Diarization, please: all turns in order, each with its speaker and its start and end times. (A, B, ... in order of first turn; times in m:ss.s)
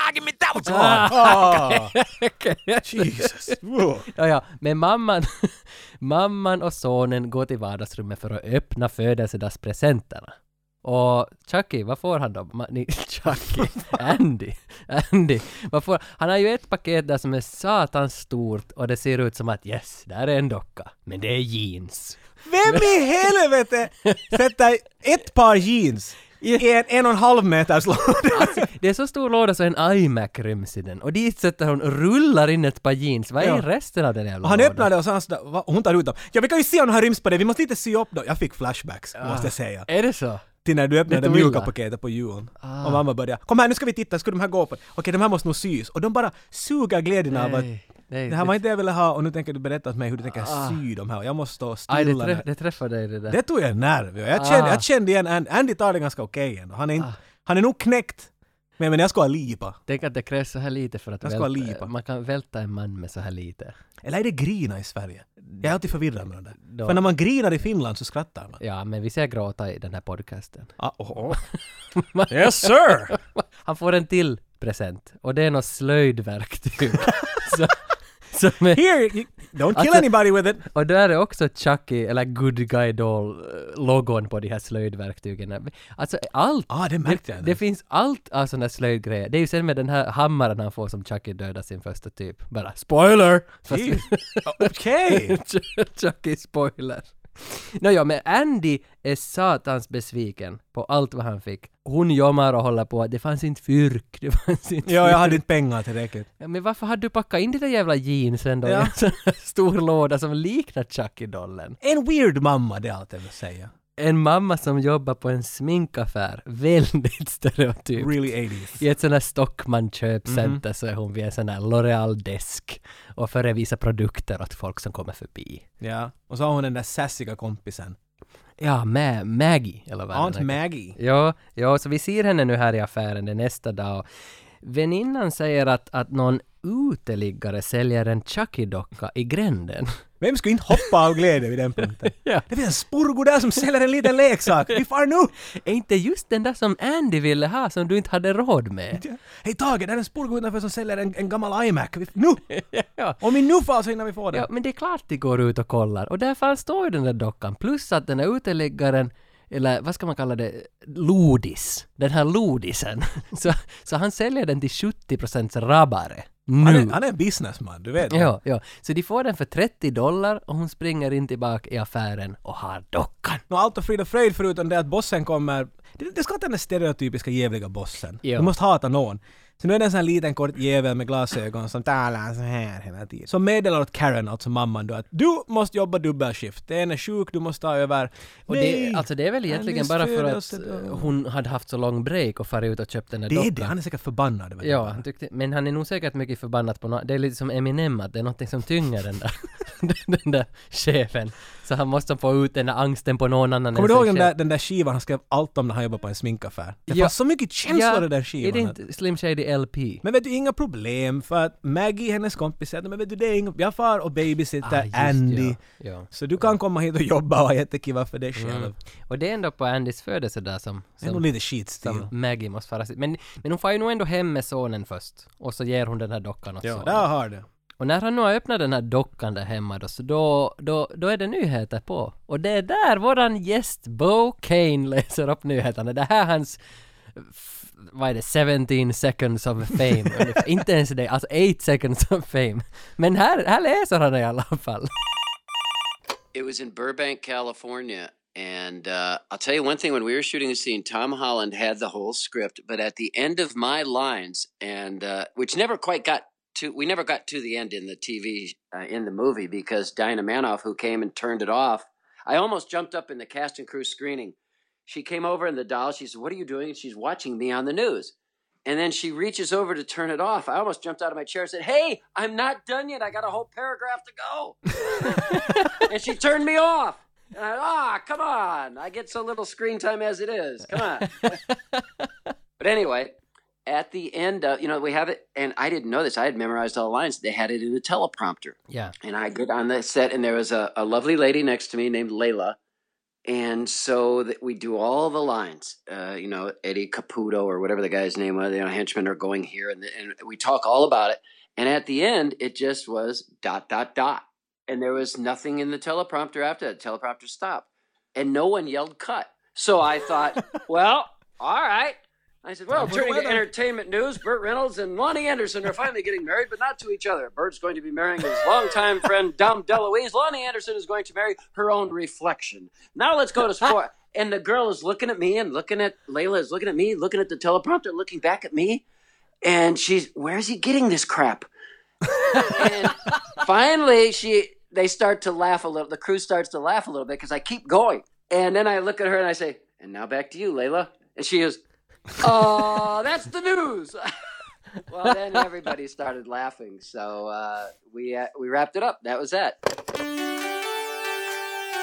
0:00.5-0:01.9 A
0:00.6-0:03.6 B
0:02.8-0:04.1 A
0:04.1-0:22.9 B
0:13.3-0:14.0 A
0:22.4-0:28.7 A
0:28.3-0:34.9 B
0:34.4-0:39.9 A
0:39.2-0:40.4 B
0:40.6-0:47.7 A
0:41.1-0:41.7 B
0:42.6-0:43.0 B
0:47.3-0:48.6 B
0:48.3-0:52.4 A
0:50.3-0:50.8 B
0:51.9-0:53.4 B
0:53.3-0:59.8 A
0:54.3-0:54.8 B
0:59.9-1:03.7 B
1:01.2-1:01.9 A
1:04.0-1:08.6 A
1:06.6-1:07.0 B
1:08.6-1:10.7 B
1:10.8-1:11.4 A
1:11.9-1:18.8 B
1:12.3-1:13.1 A
1:18.7-1:20.6 A
1:19.7-1:20.1 B
1:20.6-1:45.4 B
1:26.7-1:27.6 A
1:33.7-1:35.4 A
1:44.8-1:46.3 A
1:46.4-1:51.8 B
1:48.6-1:48.9 A
1:51.8-1:53.7 A
1:54.0-1:58.1 B
1:58.0-1:58.8 A
1:58.8-2:05.6 B
2:00.3-2:00.6 A
2:05.8-2:08.0 A
2:08.6-2:14.0 B
2:10.1-2:11.0 A
2:14.6-2:19.9 B
2:20.2-2:25.3 A
2:22.1-2:22.4 B
2:25.5-2:29.0 B
2:28.9-2:32.4 A
2:32.5-2:33.2 B
2:33.2-2:34.5 A
2:34.3-2:47.0 B
2:46.6-2:48.3 A
2:48.1-2:53.4 B
2:53.5-3:11.1 A
2:58.2-2:58.5 B
3:08.5-3:13.7 B
3:13.3-3:15.0 A
3:14.6-3:24.3 B
3:23.7-3:28.8 A
3:26.9-3:27.1 B
3:27.6-3:30.0 B
3:30.0-3:35.6 A
3:34.6-3:36.5 B
3:36.1-3:38.8 A
3:38.4-3:41.2 B
3:41.0-3:42.1 A
3:41.8-3:47.1 B
3:46.6-3:47.4 A
3:47.8-3:56.6 B
3:57.2-4:04.9 B
4:06.3-4:24.4 C
4:24.9-4:28.1 C
4:28.6-4:35.2 C
4:35.0-4:35.8 B
4:35.8-4:41.4 C
4:41.2-4:42.0 B
4:42.6-4:43.1 C
4:43.6-4:52.6 C
4:53.2-5:28.8 C
5:12.7-5:13.4 A
5:29.4-5:31.5 C
5:32.5-5:41.6 C
5:42.2-5:44.0 C
5:44.9-5:49.6 C